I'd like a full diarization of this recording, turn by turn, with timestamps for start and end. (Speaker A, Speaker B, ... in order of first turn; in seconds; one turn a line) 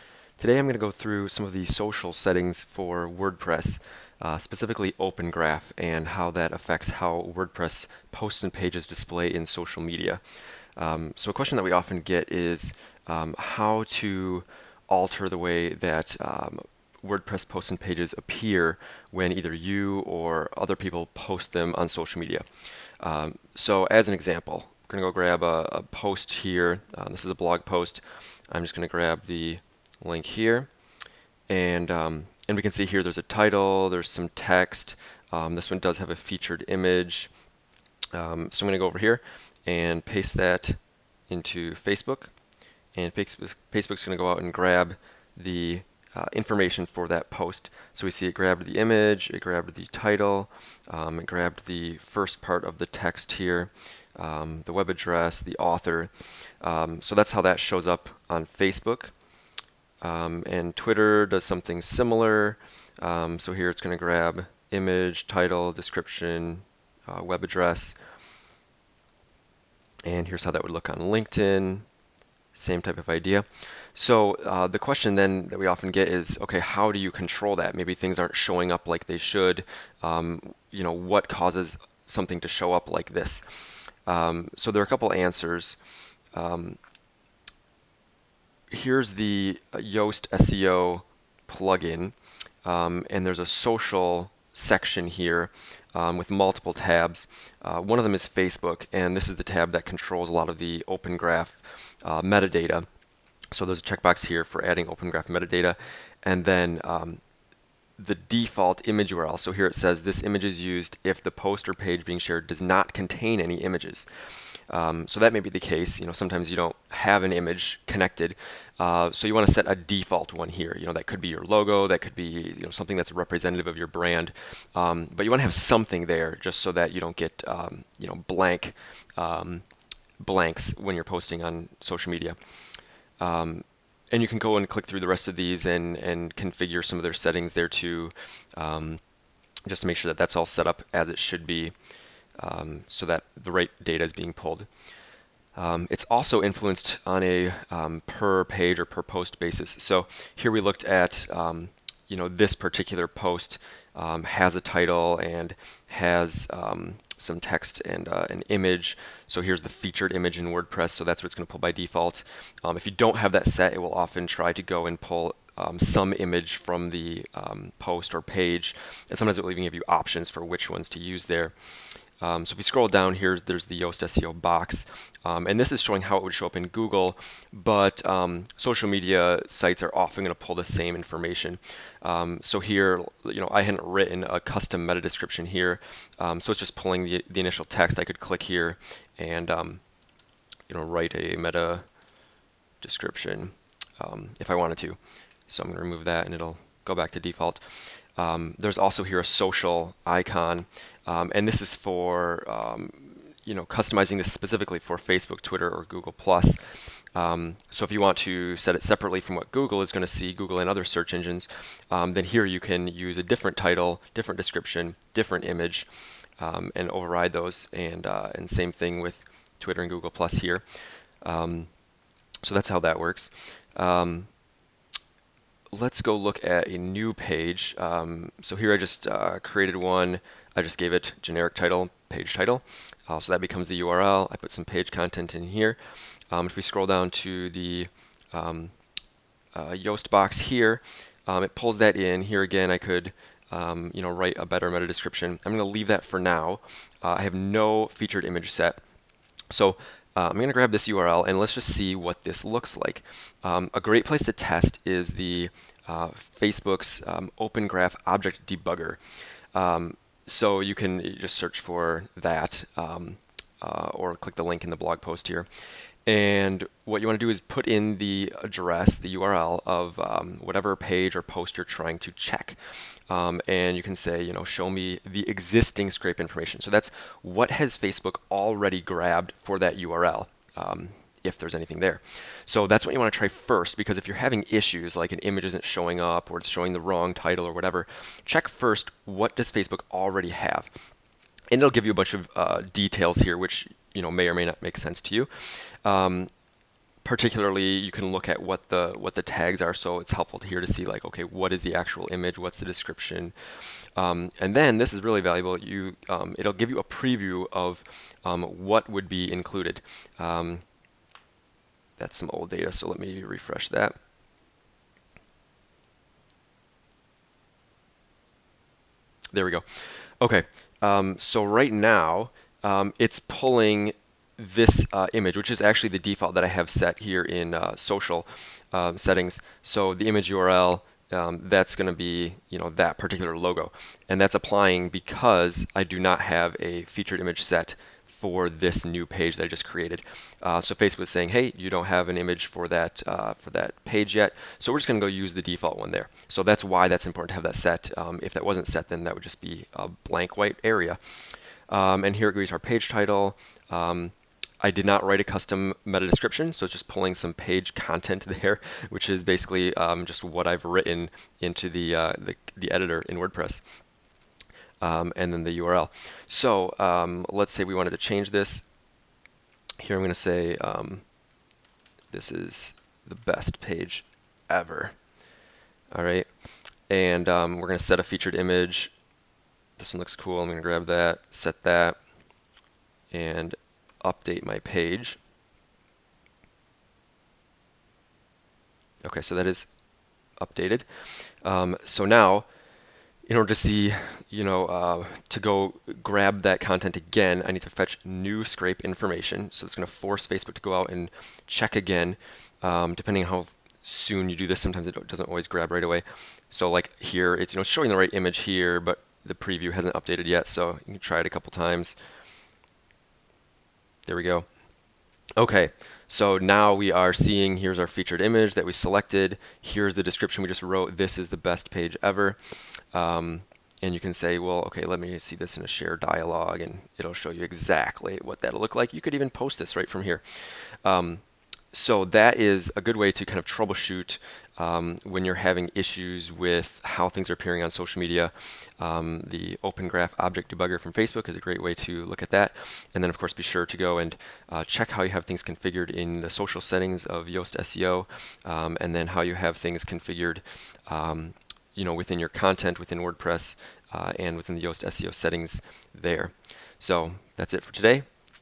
Speaker A: 0.4-10.2
Speaker A: 10.8-22.4
Speaker A: 23.0-30.7
Speaker A: 31.5-37.3
Speaker A: 38.1-40.8
Speaker A: 41.3-42.3
Speaker A: 42.9-59.1
Speaker A: 60.0-68.0
Speaker A: 70.0-71.8
Speaker A: 72.5-83.4
Speaker A: 84.1-85.8
Speaker A: 86.3-86.8
Speaker A: 88.7-102.9
Speaker A: 103.5-107.2
Speaker A: 108.0-114.1
Speaker A: 114.7-129.6
Speaker A: 130.2-132.4
Speaker A: 133.2-139.0
Speaker A: 139.7-141.7
Speaker A: 142.4-144.7
Speaker A: 145.6-171.5
Speaker A: 172.2-189.8
Speaker A: 190.7-191.8
Speaker A: 192.8-197.6
Speaker A: 198.2-206.6
Speaker A: 207.1-215.9
Speaker A: 216.4-220.6
Speaker A: 221.2-221.7
Speaker A: 222.4-224.3
Speaker A: 225.7-235.8
Speaker A: 236.3-238.7
Speaker A: 239.5-248.8
Speaker A: 249.5-259.0
Speaker A: 259.5-265.5
Speaker A: 266.1-272.6
Speaker A: 273.1-290.7
Speaker A: 291.5-295.3
Speaker A: 295.8-296.3
Speaker A: 297.0-303.3
Speaker A: 303.9-310.6
Speaker A: 312.0-313.9
Speaker A: 319.3-351.0
Speaker A: 351.7-363.6
Speaker A: 364.8-368.6
Speaker A: 369.8-371.0
Speaker A: 372.1-374.9
Speaker A: 375.9-376.3
Speaker A: 376.9-378.9
Speaker A: 379.8-382.0
Speaker A: 383.1-385.2
Speaker A: 389.0-389.7
Speaker A: 390.4-390.9
Speaker A: 391.4-392.4
Speaker A: 393.2-411.9
Speaker A: 414.1-414.5
Speaker A: 415.4-422.4
Speaker A: 422.9-430.2
Speaker A: 430.8-458.1